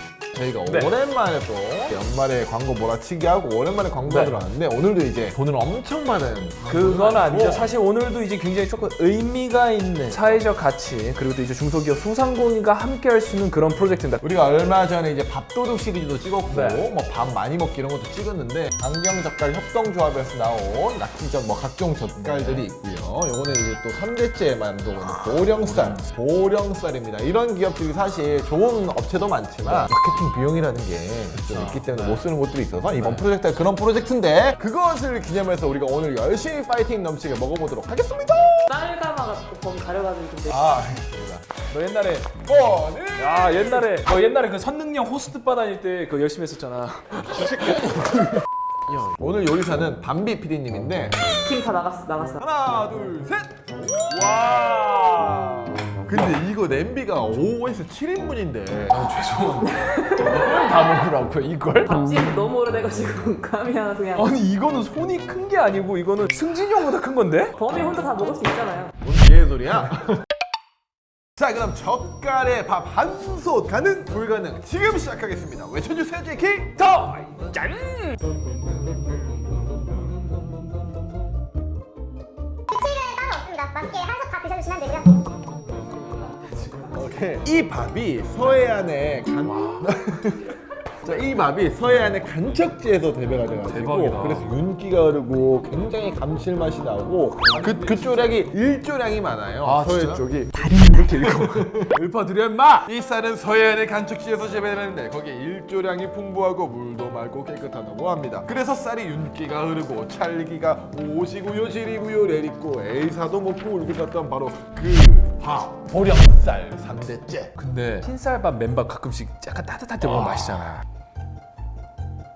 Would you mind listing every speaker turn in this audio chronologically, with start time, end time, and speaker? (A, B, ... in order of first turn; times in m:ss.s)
0:00.3-0:07.7 A
0:00.7-0:01.0 B
0:04.1-0:04.4 B
0:06.6-0:14.2 B
0:14.2-0:38.7 A
0:16.5-0:16.9 B
0:22.2-0:22.7 B
0:25.5-0:26.1 B
0:29.6-0:29.9 B
0:31.5-0:32.2 B
0:33.0-0:33.2 B
0:38.7-0:40.8 C
0:40.5-0:41.5 A
0:41.7-0:42.4 B
0:42.4-0:43.8 A
0:43.2-0:48.4 B
0:47.3-0:48.0 A
0:48.9-0:51.3 A
0:51.4-0:52.4 C
0:52.4-0:54.6 A
0:54.1-0:55.7 B
0:56.0-0:59.1 A
0:58.9-1:02.0 B
0:59.7-1:00.6 C
1:01.9-1:04.3 C
1:04.2-1:07.6 B
1:07.6-1:09.0 C
1:09.0-1:10.2 A
1:11.4-1:16.8 A
1:16.8-1:18.2 B
1:22.7-1:25.2 D
1:26.8-1:41.9 A
1:29.4-1:30.0 B
1:33.4-1:34.5 B
1:37.4-1:38.4 B
1:39.6-1:40.2 B
1:40.5-1:41.2 D
1:40.8-1:42.9 B
1:42.8-1:57.5 A
1:57.6-2:00.8 B
2:00.0-2:00.8 A